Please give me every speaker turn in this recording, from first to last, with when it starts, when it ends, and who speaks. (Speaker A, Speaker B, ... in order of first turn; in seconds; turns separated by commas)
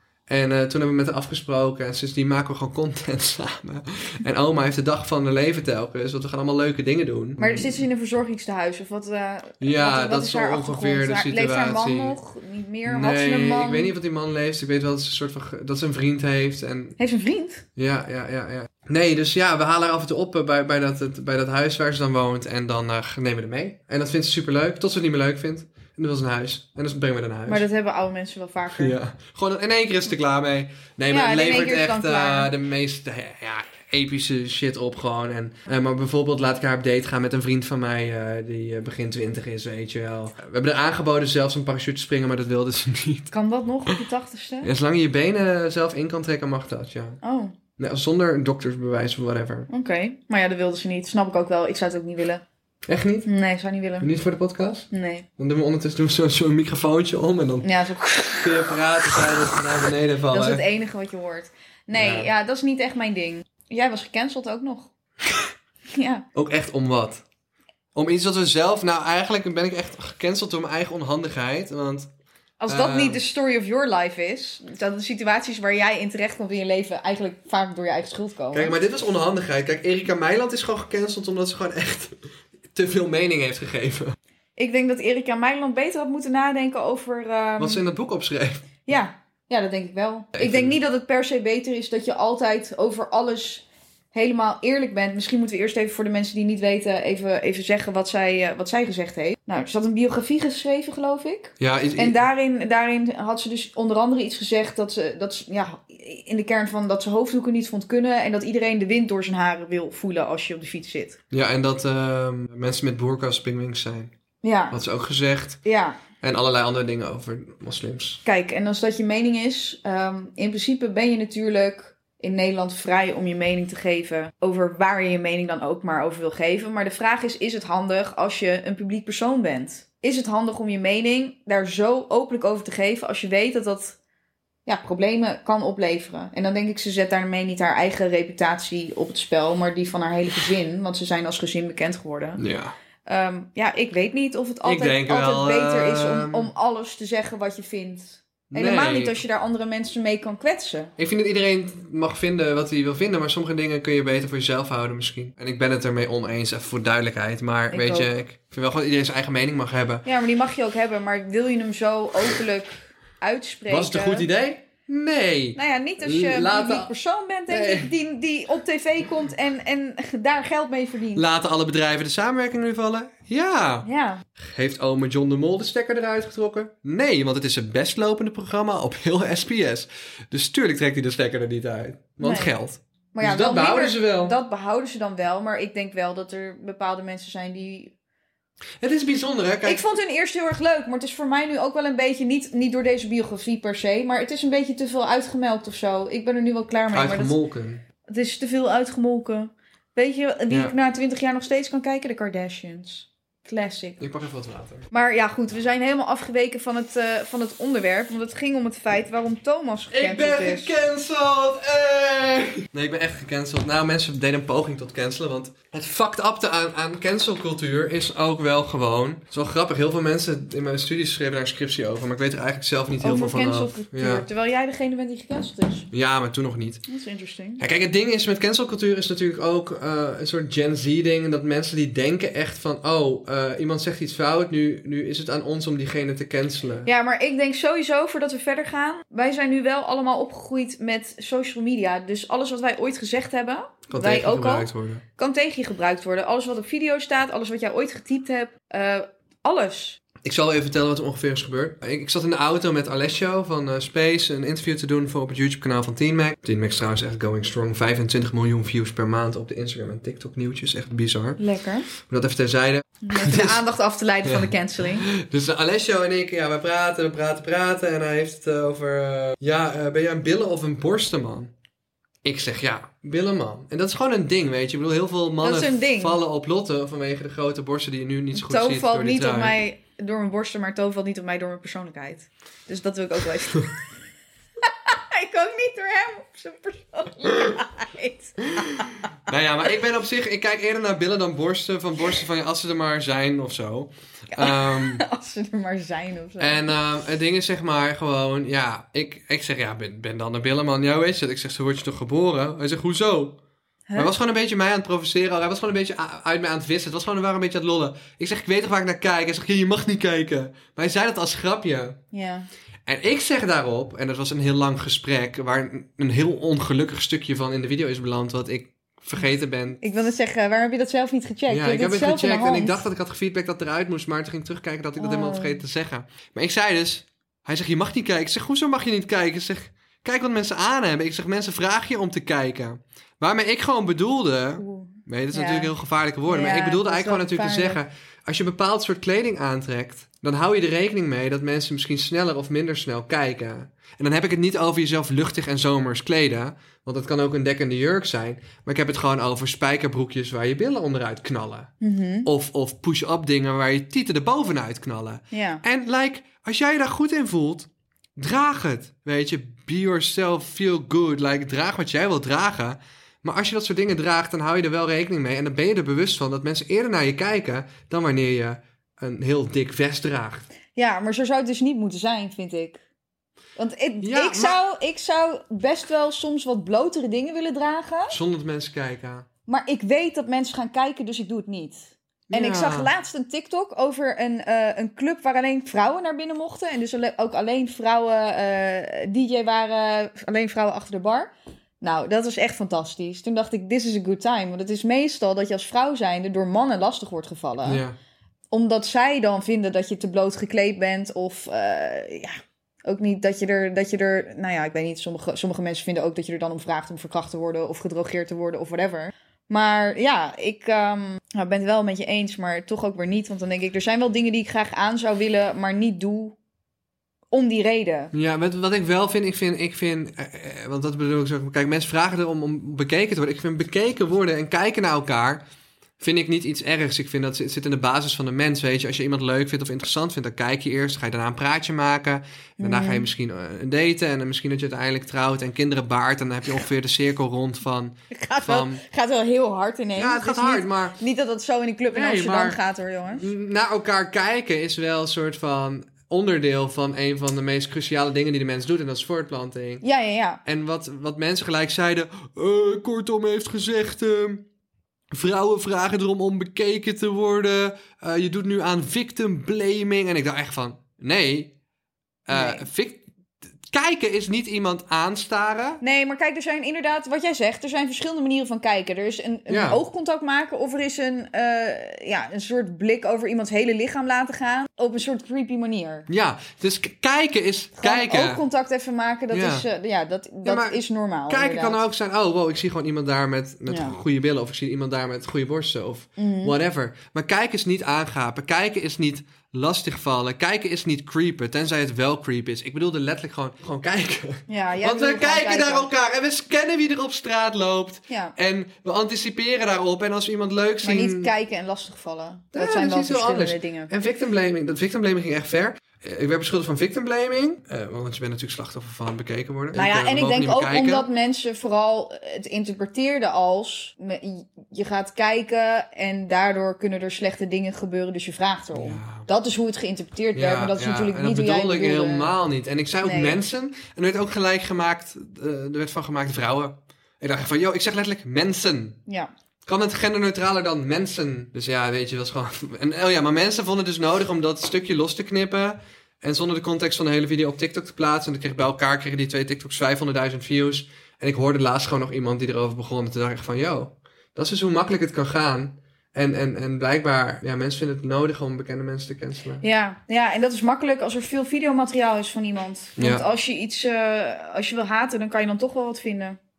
Speaker A: 0.3-7.8, Speaker B: 7.4-13.9, Speaker A: 9.6-12.2, Speaker A: 12.8-17.0, Speaker B: 17.0-17.6, Speaker A: 17.8-27.6, Speaker B: 27.5-28.9, Speaker A: 28.7-43.3, Speaker B: 31.1-32.5, Speaker B: 43.3-44.7, Speaker A: 44.6-47.2, Speaker B: 47.2-47.5, Speaker A: 47.8-49.7, Speaker B: 49.7-52.4, Speaker A: 52.9-53.3, Speaker B: 53.2-54.1, Speaker A: 54.0-57.7, Speaker B: 54.9-55.2, Speaker B: 57.6-58.8, Speaker A: 58.4-60.6, Speaker B: 60.3-64.9, Speaker A: 61.9-62.3, Speaker B: 65.9-66.2, Speaker A: 66.3-67.2, Speaker A: 67.9-72.1, Speaker B: 72.6-78.7, Speaker A: 72.7-73.2, Speaker A: 78.5-82.2, Speaker A: 82.7-84.2, Speaker B: 84.6-87.8, Speaker A: 87.6-88.6, Speaker B: 88.8-111.2, Speaker A: 90.3-90.8, Speaker A: 101.6-102.2, Speaker A: 111.3-114.1, Speaker B: 114.4-114.8, Speaker A: 114.7-115.6, Speaker B: 115.6-116.0, Speaker A: 116.2-118.2, Speaker B: 118.2-133.9, Speaker B: 134.7-142.4, Speaker A: 142.4-142.7, Speaker B: 143.1-150.9, Speaker A: 144.6-146.5, Speaker A: 148.5-149.2, Speaker A: 151.0-160.0, Speaker B: 157.7-158.1, Speaker B: 160.0-164.2, Speaker A: 163.7-166.9, Speaker B: 165.6-171.2, Speaker A: 167.5-167.9, Speaker A: 171.1-184.4, Speaker B: 173.8-174.2, Speaker B: 182.2-182.5, Speaker B: 183.1-187.9, Speaker A: 188.8-189.8, Speaker B: 189.6-197.4, Speaker A: 196.9-197.8, Speaker B: 198.0-204.0, Speaker A: 200.5-200.7, Speaker A: 204.0-204.9, Speaker B: 204.9-210.7, Speaker A: 209.9-224.2, Speaker B: 223.0-225.9, Speaker A: 225.9-226.8, Speaker B: 226.9-227.6, Speaker A: 227.6-236.9, Speaker B: 236.8-250.0, Speaker A: 243.9-245.0, Speaker A: 250.2-263.6, Speaker B: 261.4-261.9, Speaker B: 263.0-265.1, Speaker A: 264.2-271.5, Speaker A: 272.2-279.6, Speaker B: 275.4-276.2, Speaker B: 278.3-283.7, Speaker B: 284.7-288.9, Speaker A: 289.3-295.0, Speaker B: 294.3-296.7, Speaker A: 296.4-303.4, Speaker A: 303.9-312.0, Speaker B: 312.1-312.5, Speaker A: 312.9-319.8, Speaker B: 319.8-322.8, Speaker A: 321.5-351.7, Speaker B: 325.0-325.6, Speaker B: 334.6-335.7, Speaker B: 336.2-337.8, Speaker B: 351.8-352.3, Speaker A: 352.2-370.4, Speaker B: 355.3-355.6, Speaker B: 370.7-372.8, Speaker B: 373.6-378.1, Speaker A: 374.0-374.6, Speaker A: 378.1-379.3, Speaker B: 379.5-397.8, Speaker A: 382.3-382.9, Speaker A: 397.6-397.9, Speaker B: 398.5-416.4, Speaker B: 417.3-418.1, Speaker A: 418.1-425.4, Speaker A: 426.0-438.8, Speaker B: 432.6-433.1, Speaker B: 438.1-443.2, Speaker A: 439.9-441.0, Speaker A: 441.9-442.6, Speaker A: 443.1-449.8, Speaker B: 449.8-450.4, Speaker A: 450.4-454.4, Speaker A: 455.1-461.5, Speaker A: 462.2-463.0, Speaker B: 462.3-462.6, Speaker A: 463.7-465.8, Speaker B: 465.8-476.1, Speaker A: 469.5-469.8, Speaker A: 476.1-478.4, Speaker B: 477.8-481.8, Speaker A: 479.3-479.7, Speaker A: 480.4-501.3, Speaker B: 483.7-483.9, Speaker B: 486.2-486.5, Speaker B: 494.5-495.9, Speaker B: 498.1-498.3, Speaker B: 500.8-503.9, Speaker A: 502.5-511.1, Speaker B: 509.7-522.3, Speaker A: 518.7-519.3, Speaker A: 520.3-529.0, Speaker B: 523.0-523.4, Speaker A: 529.6-549.6, Speaker B: 549.6-556.4, Speaker A: 553.0-553.2